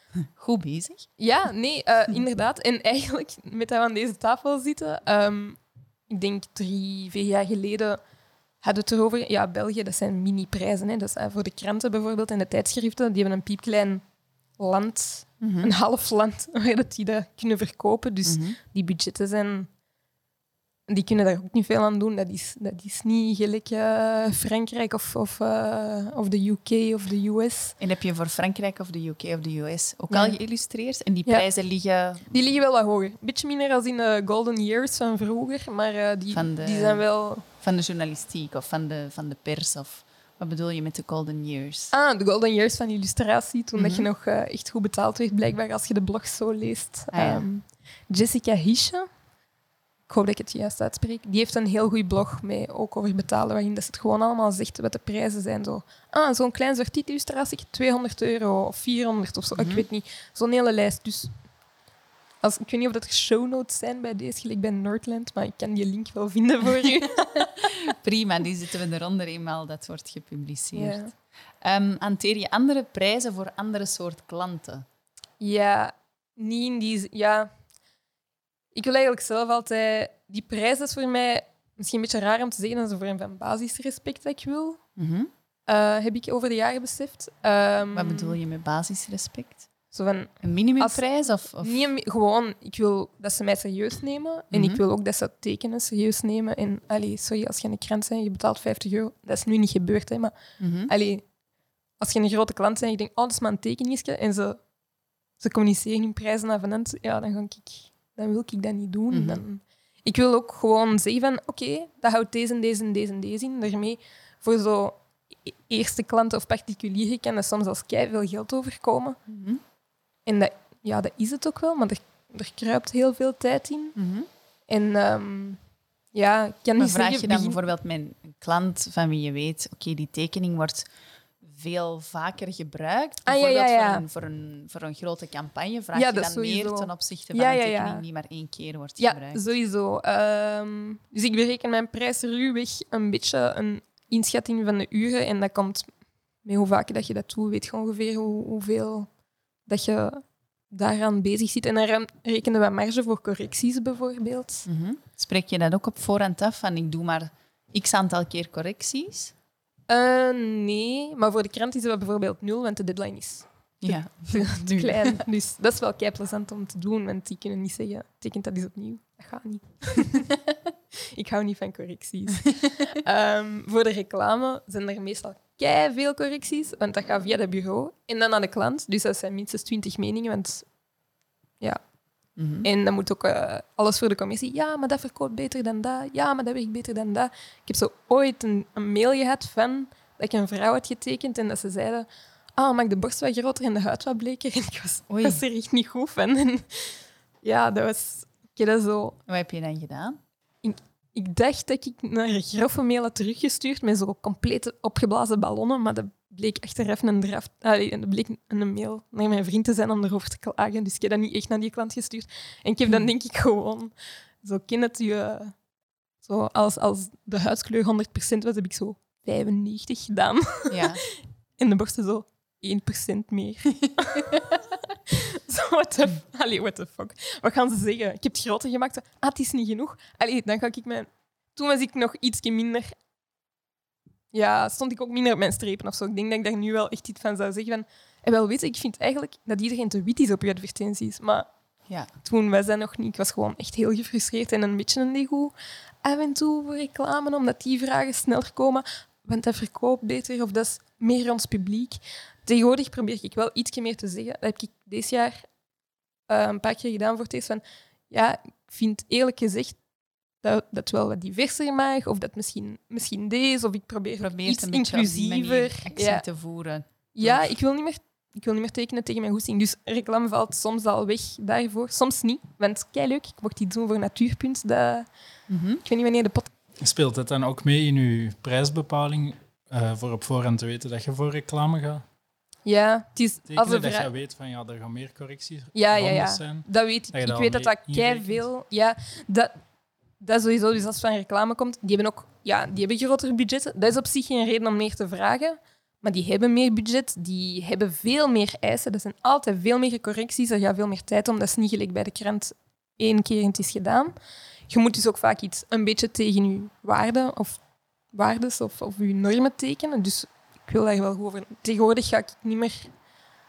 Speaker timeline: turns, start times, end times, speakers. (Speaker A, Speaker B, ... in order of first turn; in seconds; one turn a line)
Speaker A: 0.3-1.1
Speaker B: 1.2-8.0
Speaker B: 8.6-14.0
Speaker B: 14.6-19.7
Speaker A: 15.4-15.7
Speaker A: 18.3-18.6
Speaker B: 20.9-27.8
Speaker A: 27.8-32.3
Speaker B: 30.1-30.4
Speaker B: 31.2-31.5
Speaker B: 32.3-37.4
Speaker A: 36.3-41.9
Speaker B: 41.9-49.1
Speaker A: 43.8-44.1
Speaker A: 47.1-47.5
Speaker B: 50.1-61.4
Speaker A: 59.5-59.9
Speaker B: 62.4-67.5
Speaker A: 67.6-71.1
Speaker B: 70.7-71.1
Speaker A: 71.6-74.9
Speaker B: 75.4-77.5
Speaker B: 78.7-84.8
Speaker A: 85.0-85.3
Speaker B: 85.7-88.4
Speaker A: 87.9-89.7
Speaker B: 89.9-100.3
Speaker A: 90.4-91.8
Speaker A: 94.5-94.8
Speaker A: 100.6-100.9
Speaker B: 100.9-101.2
Speaker B: 102.0-104.6
Speaker B: 105.4-119.2
Speaker A: 109.1-109.4
Speaker A: 119.3-119.6
Speaker B: 120.3-124.0
Speaker A: 124.0-124.3
Speaker B: 124.7-125.6
Speaker B: 126.1-127.6
Speaker A: 126.8-130.9
Speaker A: 131.4-139.4
Speaker B: 133.3-134.0
Speaker B: 135.9-138.0
Speaker B: 139.0-145.9
Speaker B: 146.4-149.1
Speaker B: 149.7-154.7
Speaker A: 154.7-159.3
Speaker B: 159.9-170.4
Speaker A: 163.8-165.2
Speaker B: 171.1-180.7
Speaker A: 182.4-182.7
Speaker B: 182.6-199.2
Speaker A: 195.1-195.4
Speaker A: 199.3-200.2
Speaker B: 200.6-215.6
Speaker B: 216.2-232.9
Speaker A: 220.7-221.0
Speaker B: 234.3-241.5
Speaker B: 242.2-255.5
Speaker B: 256.3-259.8
Speaker B: 260.4-266.2
Speaker A: 264.2-267.5
Speaker B: 267.1-275.1
Speaker A: 275.5-275.8
Speaker B: 275.8-276.5
Speaker C: 276.8-282.0
Speaker B: 282.6-284.1
Speaker C: 283.5-288.4
Speaker B: 285.7-289.6
Speaker B: 290.2-304.1
Speaker B: 304.7-307.6
Speaker B: 308.1-312.9